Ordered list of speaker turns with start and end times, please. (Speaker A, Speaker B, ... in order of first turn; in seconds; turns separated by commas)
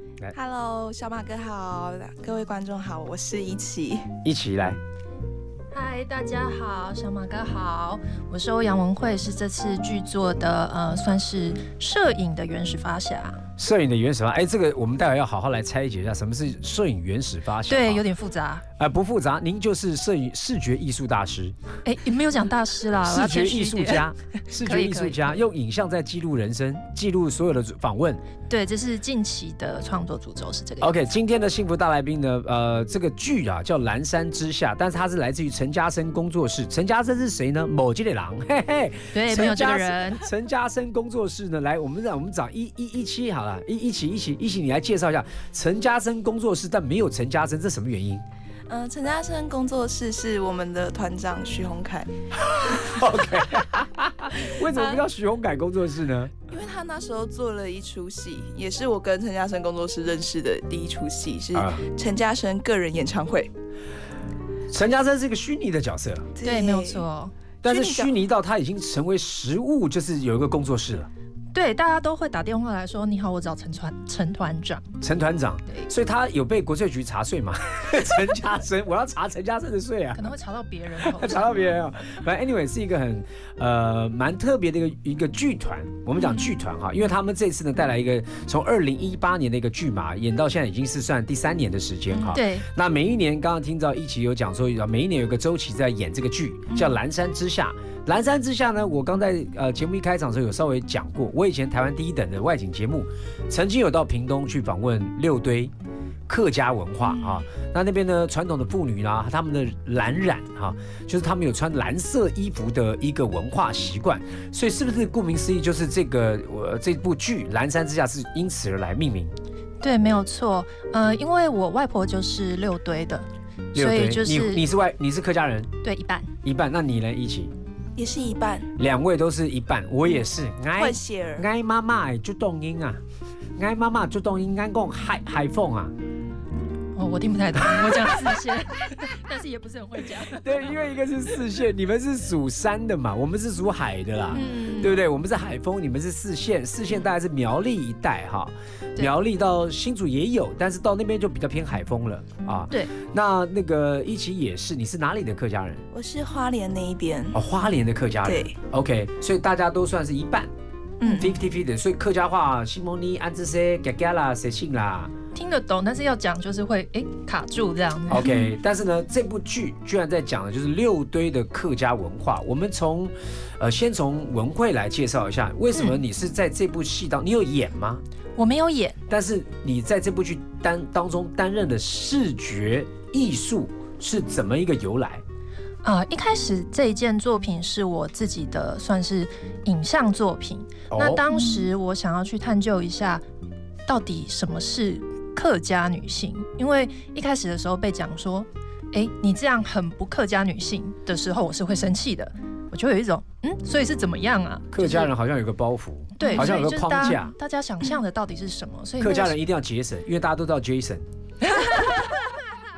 Speaker A: 0.3-4.0, Speaker B: 4.2-4.8, Speaker C: 5.7-13.4, Speaker B: 13.6-18.0, Speaker C: 17.7-18.6, Speaker B: 18.8-21.6, Speaker C: 21.8-25.3, Speaker B: 23.1-28.2, Speaker C: 28.5-30.9, Speaker B: 30.8-48.2, Speaker C: 39.1-40.2, Speaker A: 48.7-52.1, Speaker B: 52.4-56.3, Speaker A: 54.7-55.0, Speaker A: 56.5-63.5, Speaker B: 61.5-61.8, Speaker B: 64.7-66.3, Speaker A: 66.3-67.0, Speaker C: 66.4-67.3, Speaker A: 67.6-68.1, Speaker B: 67.6-71.1, Speaker C: 71.5-74.9, Speaker B: 75.0-80.2, Speaker C: 80.1-81.8, Speaker B: 81.0-105.7, Speaker C: 92.3-92.7, Speaker B: 106.3-119.3, Speaker A: 107.1-107.4, Speaker C: 119.8-124.6, Speaker B: 123.7-125.7, Speaker C: 125.8-126.3, Speaker B: 126.4-127.5, Speaker A: 128.0-128.7, Speaker B: 128.8-133.0, Speaker A: 130.8-131.4, Speaker B: 133.6-135.9, Speaker C: 136.9-140.7, Speaker B: 140.3-155.8, Speaker C: 144.3-145.0, Speaker A: 155.9-157.4, Speaker B: 157.3-160.5, Speaker A: 158.2-158.5, Speaker A: 161.0-161.3, Speaker B: 161.1-165.1, Speaker C: 165.3-168.3, Speaker B: 168.1-178.0, Speaker A: 168.2-168.5, Speaker C: 178.4-179.0, Speaker B: 179.1-185.2, Speaker C: 185.8-193.2, Speaker B: 190.9-191.2, Speaker A: 191.3-191.7, Speaker C: 193.9-205.1, Speaker B: 204.7-207.3, Speaker C: 206.2-209.3, Speaker A: 206.2-206.5, Speaker B: 209.0-211.0